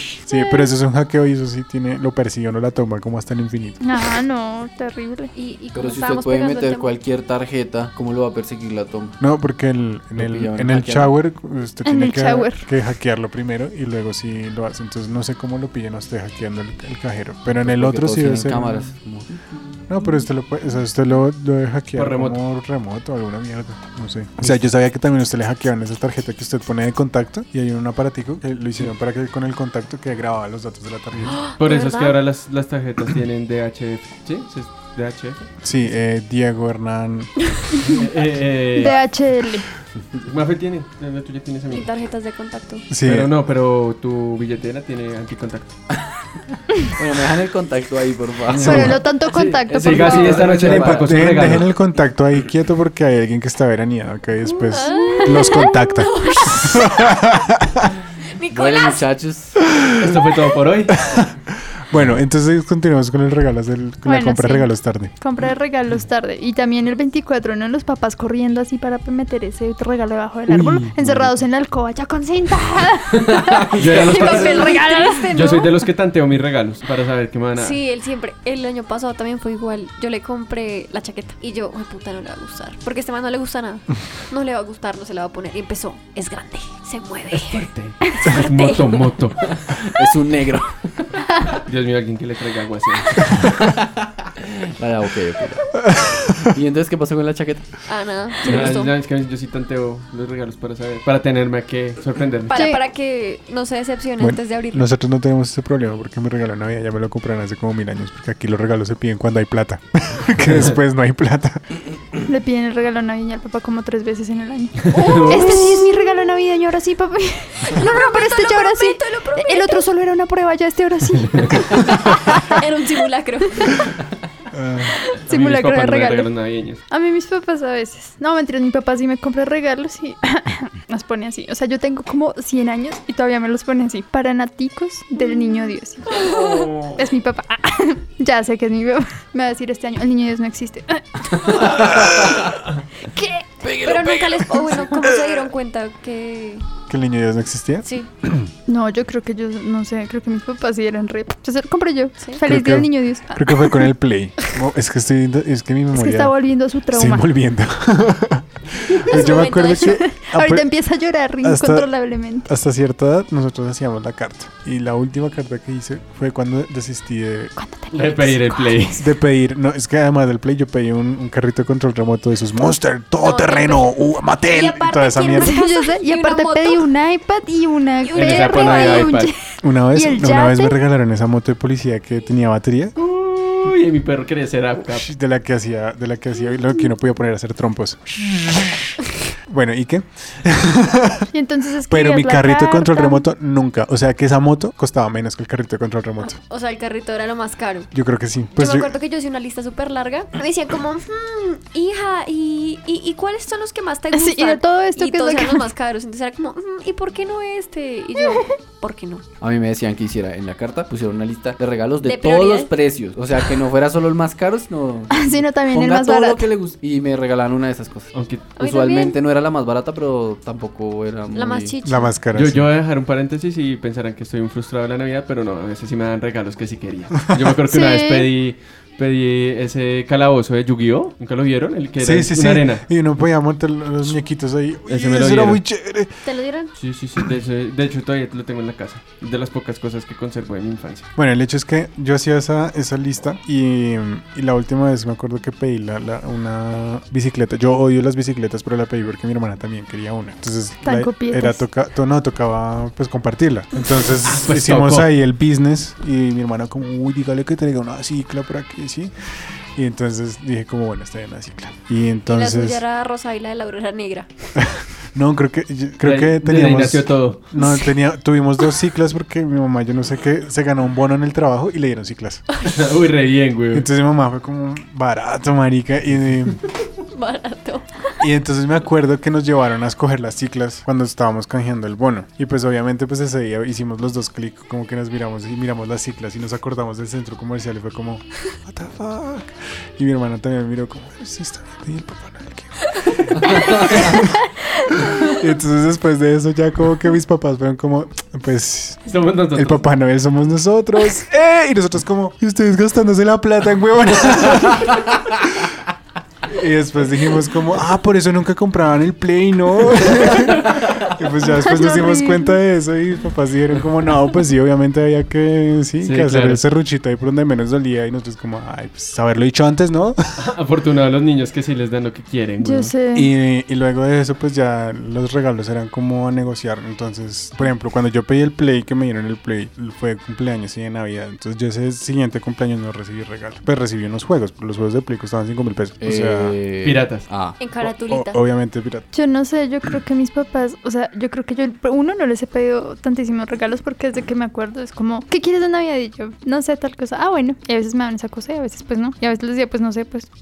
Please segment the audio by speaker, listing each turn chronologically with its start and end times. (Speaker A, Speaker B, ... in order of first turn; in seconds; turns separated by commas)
Speaker A: 0.3-3.8, Speaker B: 3.8-5.3, Speaker C: 5.3-6.9, Speaker D: 5.8-9.2, Speaker A: 9.2-18.9, Speaker D: 10.2-11.2, Speaker B: 11.8-12.7, Speaker D: 17.5-19.5, Speaker A: 19.9-31.4, Speaker E: 22.0-22.4, Speaker C: 31.3-32.2, Speaker E: 31.6-35.5, Speaker A: 35.6-37.4, Speaker E: 37.8-39.0, Speaker B: 38.7-39.7, Speaker E: 40.2-41.9, Speaker C: 41.7-42.9, Speaker A: 42.9-43.3, Speaker E: 43.0-45.8, Speaker D: 47.0-49.1, Speaker E: 48.5-51.7, Speaker B: 48.6-50.6, Speaker D: 49.7-51.3, Speaker A: 50.6-57.9, Speaker C: 54.6-57.1, Speaker B: 55.0-55.6, Speaker C: 58.3-59.1, Speaker D: 58.5-59.5, Speaker E: 60.0-61.0, Speaker A: 61.0-65.1, Speaker B: 64.0-75.7, Speaker E: 70.5-71.3, Speaker E: 73.7-77.8, Speaker C: 73.9-75.6, Speaker C: 77.5-87.7, Speaker E: 87.3-89.5, Speaker C: 88.3-89.1, Speaker D: 89.5-91.1, Speaker E: 91.7-93.5, Speaker D: 93.4-95.8, Speaker A: 95.8-96.5, Speaker D: 96.4-97.7, Speaker C: 97.9-98.9, Speaker E: 98.4-102.6, Speaker C: 102.5-104.9, Speaker B: 102.5-102.8, Speaker A: 104.2-111.6, Speaker B: 112.3-122.6, Speaker E: 114.9-115.6, Speaker C: 114.9-116.0, Speaker C: 117.7-119.9, Speaker C: 121.7-123.9, Speaker A: 124.5-125.0, Speaker B: 125.3-126.3, Speaker E: 125.3-126.8, Speaker B: 126.9-142.3, Speaker C: 136.1-136.6, Speaker B: 143.1-143.8, Speaker C: 143.7-146.7, Speaker A: 146.9-148.5, Speaker C: 147.8-148.1, Speaker B: 148.7-153.8, Speaker A: 152.4-160.8, Speaker B: 155.9-157.3, Speaker C: 159.1-160.0, Speaker B: 159.1-162.5, Speaker A: 161.4-161.9, Speaker A: 162.4-167.5, Speaker B: 167.6-169.1, Speaker E: 167.9-169.0, Speaker A: 169.0-175.6, Speaker C: 173.2-176.9, Speaker B: 175.3-180.7, Speaker C: 178.1-179.2, Speaker E: 178.1-179.3, Speaker A: 179.6-182.9, Speaker E: 183.0-185.1, Speaker A: 184.9-188.8, Speaker A: 189.5-191.3, Speaker B: 191.3-193.2, Speaker A: 191.9-196.4, Speaker C: 196.3-197.9, Speaker A: 197.9-198.9, Speaker C: 198.6-209.2, Speaker B: 204.1-205.6, Speaker D: 209.4-221.7, Speaker C: 212.0-212.7, Speaker B: 215.1-216.5, Speaker E: 218.1-218.5, Speaker C: 218.6-219.2, Speaker C: 221.3-222.1, Speaker A: 221.8-222.7, Speaker E: 222.3-232.9, Speaker B: 227.7-228.3, Speaker A: 232.0-236.2, Speaker E: 234.9-235.6, Speaker C: 236.2-236.7, Speaker E: 236.8-241.1, Speaker A: 241.2-259.1, Speaker B: 250.8-251.6, Speaker E: 254.2-255.1, Speaker A: 259.8-262.8, Speaker C: 262.3-264.3, Speaker A: 264.6-272.4, Speaker E: 266.0-267.5, Speaker E: 272.6-273.9, Speaker A: 273.7-276.6, Speaker C: 277.1-277.9, Speaker A: 278.2-294.4, Speaker A: 295.0-299.0, Speaker E: 299.1-299.9, Speaker A: 299.6-305.7, Speaker A: 306.4-320.2, Speaker B: 311.5-312.6, Speaker E: 316.0-316.6, Speaker E: 320.4-322.9, Speaker B: 322.6-323.3, Speaker A: 323.1-336.6, Speaker D: 336.0-337.6, Speaker E: 336.8-337.3, Speaker C: 337.6-338.4, Speaker A: 337.8-339.1, Speaker B: 339.1-350.3